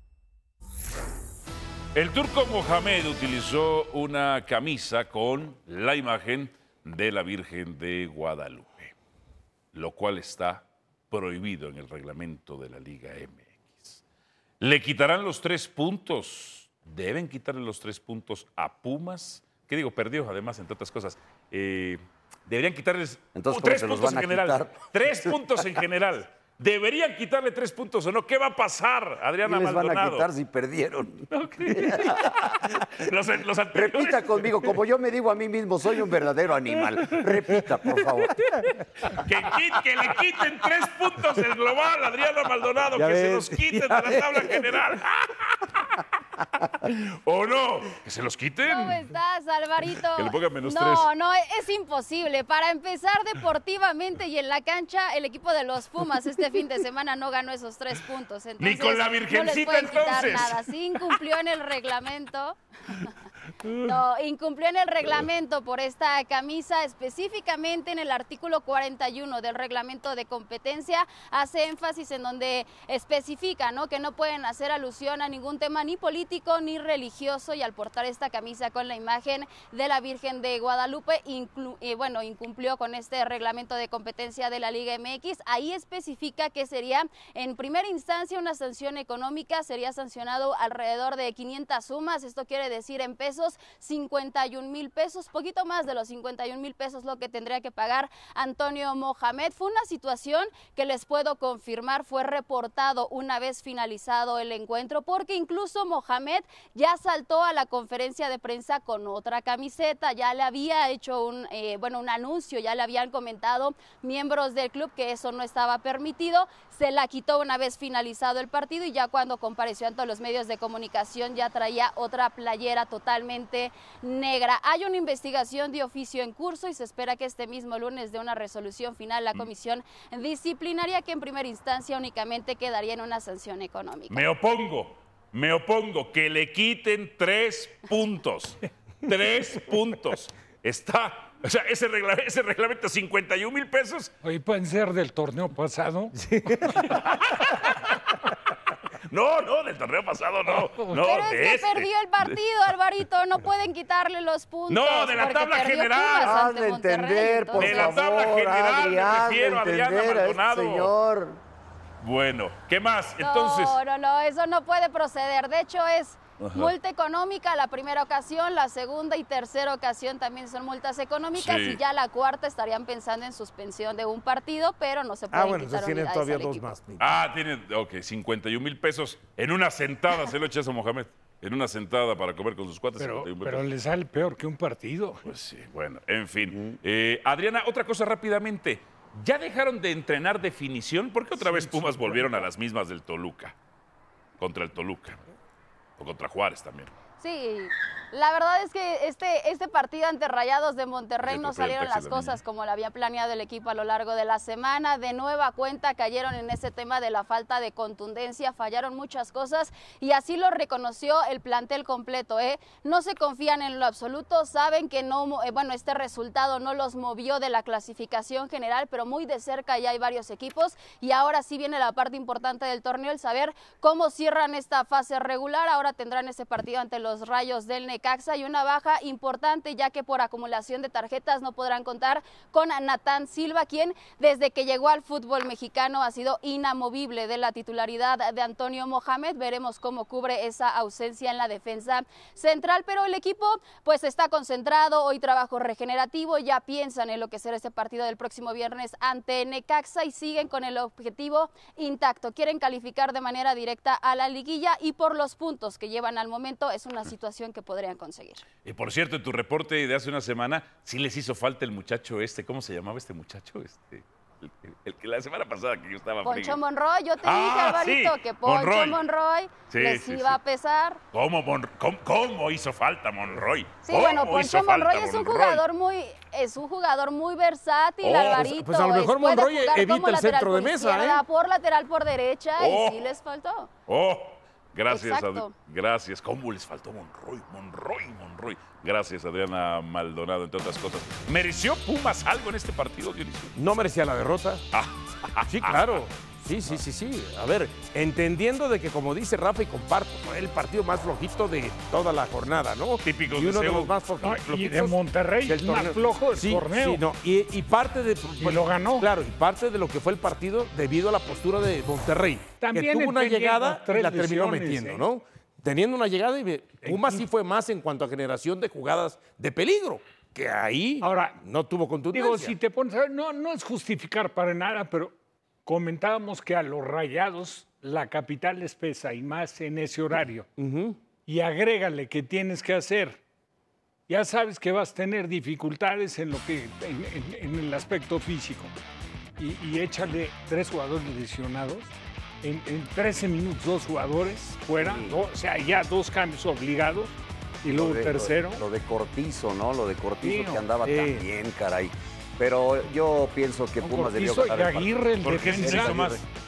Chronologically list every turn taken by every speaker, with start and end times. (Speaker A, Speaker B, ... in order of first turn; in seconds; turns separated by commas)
Speaker A: 1.9-8.9, Speaker A: 9.7-14.0, Speaker A: 14.6-30.3, Speaker B: 23.4-25.4, Speaker B: 29.4-32.5, Speaker A: 31.3-34.5, Speaker B: 33.8-38.5, Speaker A: 39.1-46.0, Speaker C: 43.0-44.6, Speaker A: 46.8-49.0, Speaker D: 48.6-63.1, Speaker A: 50.2-51.1, Speaker A: 58.6-61.2, Speaker D: 63.8-134.2, Speaker A: 134.1-144.1, Speaker E: 144.2-146.7, Speaker C: 146.2-146.9, Speaker A: 146.8-148.1, Speaker A: 149.1-152.4, Speaker D: 150.9-158.0, Speaker A: 154.7-156.4, Speaker B: 156.2-161.4, Speaker A: 157.6-160.9, Speaker A: 162.0-163.8, Speaker D: 163.2-176.8, Speaker A: 166.4-166.7, Speaker A: 171.4-171.8, Speaker C: 175.3-177.1, Speaker A: 177.0-183.7, Speaker E: 183.0-185.3, Speaker A: 185.2-193.6, Speaker C: 191.4-192.3, Speaker A: 194.4-195.2, Speaker A: 196.0-196.9, Speaker D: 197.2-258.4, Speaker A: 201.3-202.4, Speaker A: 258.6-266.6, Speaker D: 266.2-271.0, Speaker A: 267.2-269.0, Speaker A: 269.7-270.4, Speaker A: 271.1-275.6, Speaker D: 273.8-283.7, Speaker A: 278.0-278.4, Speaker C: 278.2-281.2, Speaker A: 282.6-283.1, Speaker A: 283.9-293.6, Speaker D: 284.9-285.5, Speaker C: 293.6-294.6, Speaker A: 294.7-296.0, Speaker C: 295.5-322.6, Speaker A: 303.0-303.9, Speaker E: 304.2-307.0, Speaker E: 308.4-309.1, Speaker E: 312.6-315.1, Speaker E: 316.8-317.2, Speaker E: 321.0-321.4, Speaker E: 322.1-330.5, Speaker C: 330.6-331.0, Speaker E: 331.3-333.2, Speaker E: 334.1-338.7, Speaker E: 339.4-348.6, Speaker B: 344.8-345.2, Speaker B: 347.7-355.0, Speaker E: 350.2-350.7, Speaker C: 350.9-351.2, Speaker E: 353.8-356.1, Speaker A: 355.2-356.2, Speaker B: 355.6-356.2